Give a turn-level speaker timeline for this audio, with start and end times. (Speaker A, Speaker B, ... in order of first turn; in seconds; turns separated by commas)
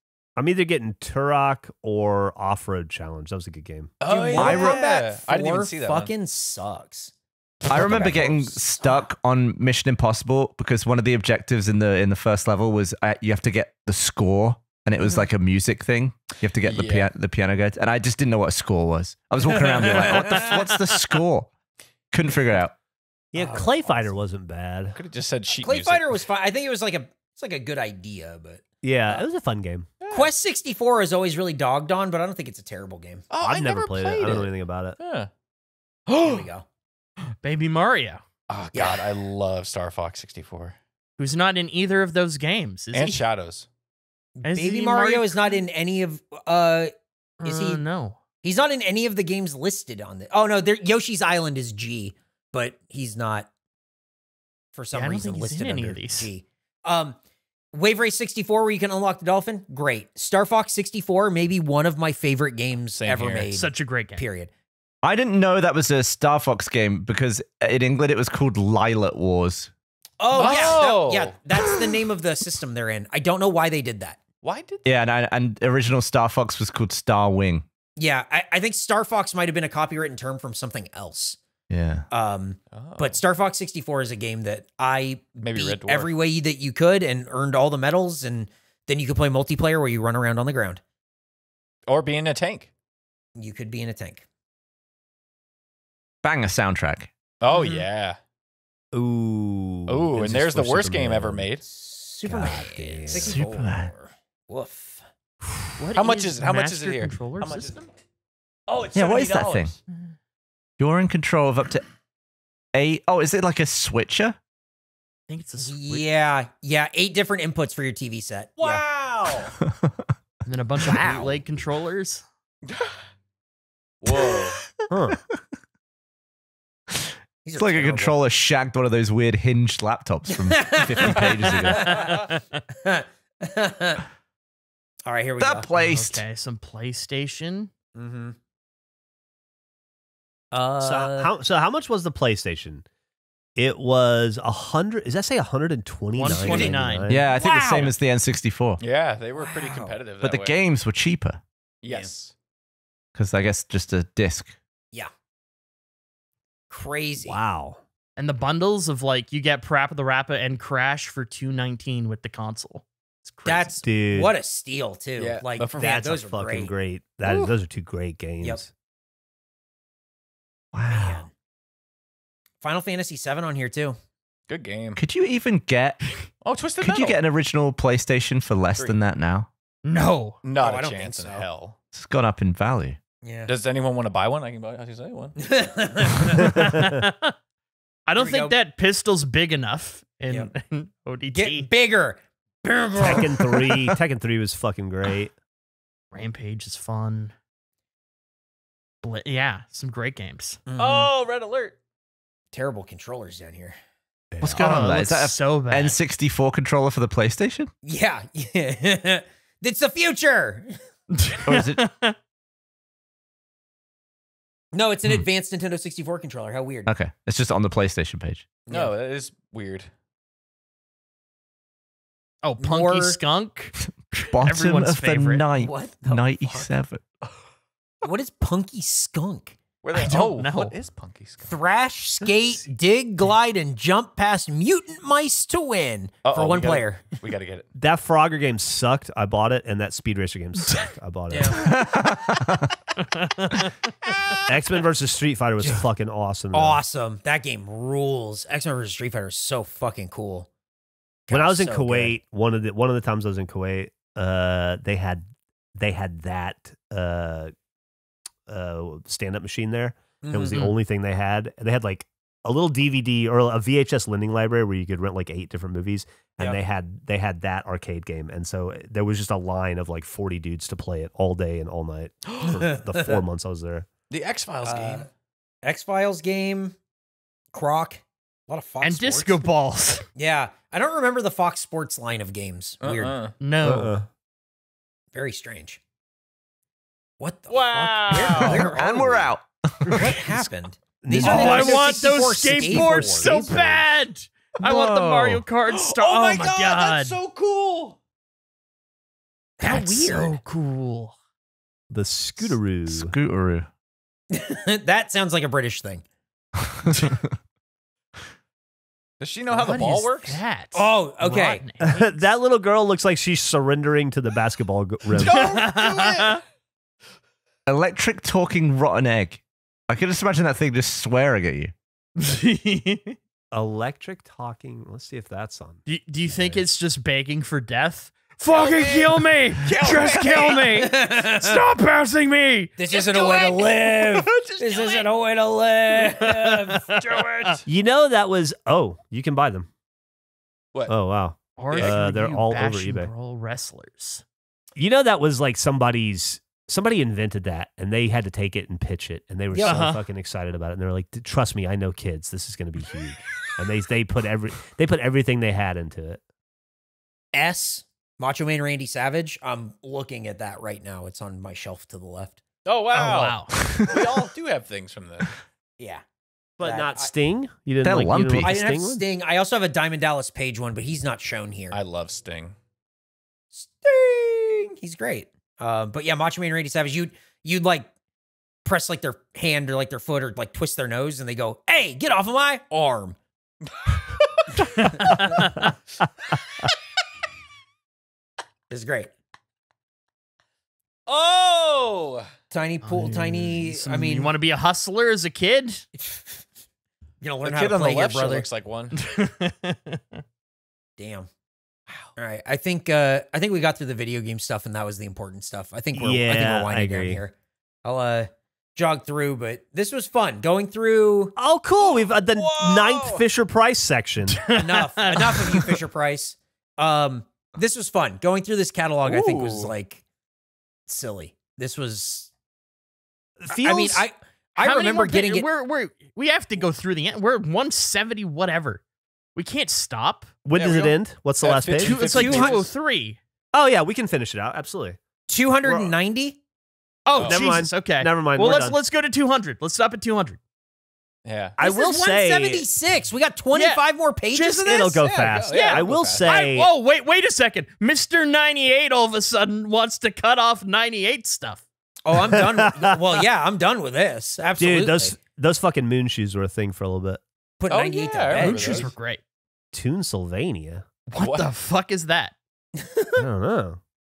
Speaker A: 0.4-3.9, Speaker B: 4.0-6.1, Speaker C: 4.0-7.1, Speaker D: 4.4-4.8, Speaker C: 7.6-9.1, Speaker D: 7.7-21.5, Speaker B: 7.7-8.2, Speaker B: 16.6-17.1, Speaker C: 19.5-20.6, Speaker B: 19.9-20.3, Speaker E: 20.2-21.0, Speaker D: 22.1-22.7, Speaker C: 23.3-23.8, Speaker A: 23.3-25.0, Speaker B: 23.4-24.0, Speaker B: 24.9-26.1, Speaker C: 25.6-29.2, Speaker A: 28.8-29.9, Speaker B: 30.0-30.3, Speaker C: 30.1-33.2, Speaker B: 33.3-35.3, Speaker A: 33.4-35.0, Speaker B: 36.1-36.4, Speaker C: 36.2-36.6, Speaker E: 37.4-38.2, Speaker B: 38.5-40.8, Speaker C: 38.7-39.0, Speaker E: 41.2-43.2, Speaker B: 42.9-43.7, Speaker C: 44.4-46.9, Speaker E: 44.4-45.6, Speaker E: 47.4-48.2, Speaker C: 47.4-47.8, Speaker C: 48.4-53.5, Speaker C: 54.7-57.2, Speaker E: 54.9-56.3, Speaker C: 57.7-64.5, Speaker B: 62.9-63.5, Speaker E: 63.5-64.2, Speaker D: 65.0-69.7, Speaker C: 70.2-74.2, Speaker B: 70.3-71.3, Speaker B: 74.4-74.9, Speaker D: 74.8-77.6, Speaker C: 78.0-81.4, Speaker D: 81.7-82.0, Speaker C: 82.1-90.8, Speaker B: 82.7-83.2, Speaker B: 85.4-86.1, Speaker B: 91.9-92.7, Speaker C: 93.4-94.2, Speaker D: 96.2-97.1, Speaker B: 97.4-98.2, Speaker C: 97.5-97.9, Speaker A: 98.9-101.5, Speaker B: 99.9-101.6, Speaker C: 101.6-105.0, Speaker A: 102.2-103.4, Speaker D: 103.1-103.9, Speaker E: 105.8-107.9, Speaker B: 105.9-107.9, Speaker B: 108.7-109.8, Speaker D: 108.9-109.7, Speaker D: 110.8-111.9, Speaker D: 112.7-114.4, Speaker E: 115.3-115.8, Speaker C: 115.6-118.8, Speaker B: 118.6-119.5, Speaker D: 119.6-119.9, Speaker E: 120.5-122.2, Speaker C: 120.8-121.4, Speaker B: 122.6-123.0, Speaker B: 124.0-124.6, Speaker A: 124.9-125.2, Speaker D: 126.9-132.0, Speaker C: 127.4-128.2, Speaker C: 130.4-132.3, Speaker A: 131.0-131.6, Speaker E: 131.8-132.6, Speaker C: 132.8-134.0, Speaker C: 135.0-135.7, Speaker D: 135.4-136.2, Speaker E: 135.8-137.7, Speaker C: 137.9-138.4, Speaker C: 140.5-141.3, Speaker A: 140.8-142.8, Speaker A: 143.6-147.2, Speaker E: 146.2-147.1, Speaker C: 146.3-146.7, Speaker B: 146.4-146.7, Speaker D: 147.1-148.8, Speaker C: 147.3-147.9, Speaker B: 148.8-150.5, Speaker C: 149.4-150.0, Speaker D: 150.2-151.4, Speaker B: 151.8-152.3, Speaker D: 153.1-154.6, Speaker C: 156.7-157.4, Speaker A: 157.2-157.8, Speaker E: 158.2-163.7, Speaker C: 163.4-166.7, Speaker A: 163.8-164.3, Speaker B: 165.2-166.2, Speaker A: 165.8-168.7, Speaker D: 170.7-171.2, Speaker C: 170.9-171.3, Speaker C: 172.6-174.0, Speaker B: 174.5-175.0, Speaker D: 175.0-176.1, Speaker B: 176.4-177.2, Speaker D: 176.8-179.5, Speaker E: 179.8-180.4, Speaker B: 180.4-181.8, Speaker C: 180.6-181.4, Speaker D: 181.9-183.0, Speaker C: 183.2-183.5, Speaker B: 183.5-185.3, Speaker C: 185.4-186.6, Speaker E: 186.3-187.3, Speaker E: 188.1-191.7, Speaker C: 188.2-188.6, Speaker C: 191.3-193.8, Speaker A: 193.0-195.3, Speaker E: 196.1-197.3, Speaker E: 199.0-200.6, Speaker C: 200.7-201.1, Speaker B: 200.8-201.8, Speaker C: 202.5-203.8, Speaker A: 204.3-204.7, Speaker E: 204.4-206.0, Speaker D: 204.4-207.7, Speaker C: 207.8-210.8, Speaker E: 211.1-212.2, Speaker D: 211.4-211.8, Speaker C: 214.7-216.9, Speaker D: 216.8-218.5, Speaker C: 218.7-218.9, Speaker B: 218.7-219.9, Speaker E: 222.4-225.5, Speaker C: 222.6-223.2, Speaker D: 224.3-227.0, Speaker C: 225.6-226.7, Speaker C: 228.0-229.6, Speaker B: 229.8-231.5, Speaker E: 229.9-230.7, Speaker C: 231.5-237.2, Speaker B: 236.2-237.7, Speaker A: 237.7-241.7, Speaker C: 241.3-241.6, Speaker D: 241.5-242.7, Speaker E: 243.0-243.7, Speaker A: 244.5-246.8, Speaker C: 246.5-250.5, Speaker C: 251.3-252.1, Speaker A: 251.3-257.5, Speaker A: 258.5-273.9, Speaker C: 260.2-260.7, Speaker C: 272.4-273.2, Speaker B: 274.1-275.1, Speaker C: 274.6-275.1, Speaker C: 275.6-276.8, Speaker C: 277.5-279.4, Speaker E: 278.8-280.0, Speaker C: 280.1-283.2, Speaker B: 282.8-283.4, Speaker E: 283.4-284.0, Speaker A: 283.6-284.1, Speaker C: 285.1-285.8, Speaker C: 287.2-289.3, Speaker B: 287.5-288.8, Speaker D: 288.2-290.4, Speaker E: 289.8-290.2, Speaker C: 289.9-293.8, Speaker A: 291.0-291.9, Speaker E: 291.2-297.1, Speaker B: 294.6-298.0, Speaker C: 299.6-300.4, Speaker E: 299.6-301.1, Speaker A: 301.9-303.1, Speaker D: 302.9-303.7, Speaker C: 304.3-306.0, Speaker D: 306.8-307.2, Speaker B: 309.2-310.4, Speaker E: 309.5-312.1, Speaker C: 310.7-311.6, Speaker A: 311.8-315.5, Speaker B: 315.1-316.4, Speaker E: 315.2-316.4, Speaker D: 317.7-321.7, Speaker E: 322.2-323.1, Speaker A: 323.5-326.6, Speaker E: 325.9-332.8, Speaker B: 328.5-330.7, Speaker C: 330.8-331.6, Speaker C: 332.8-336.9, Speaker B: 332.9-335.1, Speaker E: 336.2-337.6, Speaker B: 336.9-337.6, Speaker A: 337.6-339.7, Speaker A: 340.9-343.1, Speaker E: 341.6-344.2, Speaker B: 341.7-342.0, Speaker A: 344.8-356.2, Speaker C: 349.5-349.9, Speaker E: 349.6-350.0, Speaker C: 357.3-362.4, Speaker B: 362.6-365.3, Speaker E: 362.9-363.5, Speaker D: 363.6-364.0, Speaker A: 366.6-369.0, Speaker C: 366.6-367.1, Speaker D: 367.8-368.5, Speaker C: 368.4-371.8, Speaker B: 371.7-372.6, Speaker C: 373.5-377.9, Speaker C: 378.6-383.2, Speaker E: 384.8-385.7, Speaker C: 384.8-385.6, Speaker C: 388.7-389.1, Speaker B: 391.1-392.3, Speaker C: 392.5-394.3, Speaker E: 392.8-395.9, Speaker C: 396.0-396.4, Speaker C: 397.2-398.5, Speaker B: 397.4-398.9, Speaker E: 398.9-400.2, Speaker C: 401.0-401.3, Speaker C: 402.1-411.4, Speaker A: 405.9-407.2, Speaker A: 411.4-414.4, Speaker B: 411.8-413.2, Speaker E: 414.3-415.7, Speaker C: 414.5-420.0, Speaker B: 419.0-419.7, Speaker C: 420.9-422.3, Speaker A: 423.4-424.1, Speaker C: 423.5-425.5, Speaker E: 424.6-428.8, Speaker E: 429.3-430.4, Speaker A: 430.4-432.0, Speaker B: 430.5-432.7, Speaker E: 431.8-433.2, Speaker C: 432.0-432.6, Speaker A: 433.5-435.0, Speaker C: 435.3-436.4, Speaker A: 435.6-435.9, Speaker E: 437.1-440.4, Speaker A: 437.1-438.8, Speaker B: 437.2-437.4, Speaker B: 441.2-441.6, Speaker A: 441.6-442.7, Speaker C: 441.6-445.0, Speaker E: 443.5-443.8, Speaker A: 444.3-446.7, Speaker B: 445.0-446.5, Speaker E: 445.4-451.6, Speaker C: 452.0-455.1, Speaker A: 452.1-453.2, Speaker A: 454.6-457.2, Speaker C: 457.6-458.9, Speaker B: 457.7-458.9, Speaker E: 458.4-459.2, Speaker A: 458.4-458.9, Speaker A: 459.7-460.8, Speaker E: 461.1-462.3, Speaker B: 461.1-461.5, Speaker C: 462.8-463.2, Speaker A: 463.2-463.8